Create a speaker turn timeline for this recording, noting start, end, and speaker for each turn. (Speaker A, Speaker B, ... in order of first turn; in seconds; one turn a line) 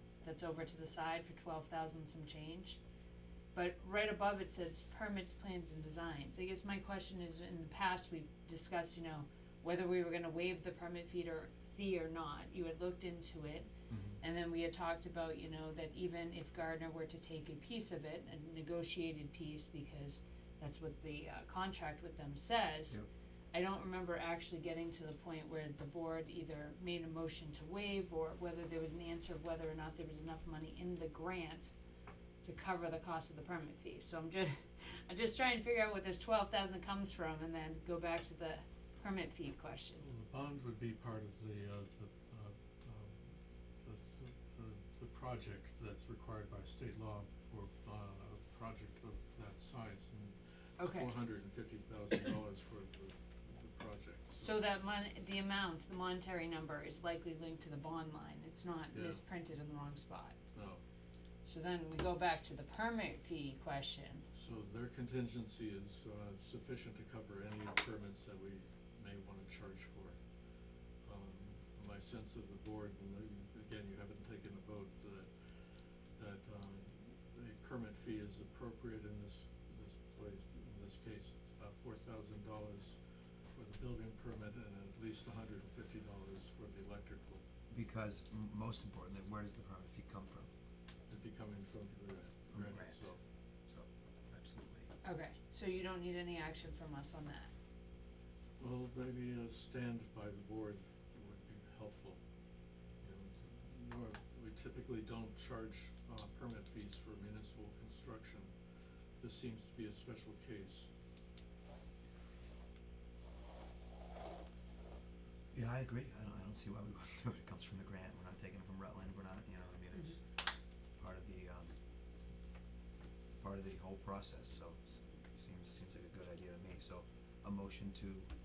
Speaker A: 0.2-2.8
Speaker A: 3.5-13.7
Speaker A: 14.2-23.0
Speaker A: 23.5-31.7
Speaker A: 32.4-40.0
Speaker B: 40.0-54.6
Speaker A: 50.8-51.1
Speaker A: 54.4-60.4
Speaker B: 58.9-59.2
Speaker B: 60.5-60.8
Speaker A: 61.4-64.2
Speaker B: 64.3-70.2
Speaker B: 71.0-87.4
Speaker C: 87.7-90.5
Speaker B: 91.1-93.2
Speaker C: 92.5-93.1
Speaker C: 93.7-94.9
Speaker A: 95.0-97.5
Speaker B: 98.6-102.2
Speaker B: 103.0-108.5
Speaker B: 109.2-110.9
Speaker C: 115.5-120.3
Speaker C: 121.0-121.7
Speaker C: 123.4-128.3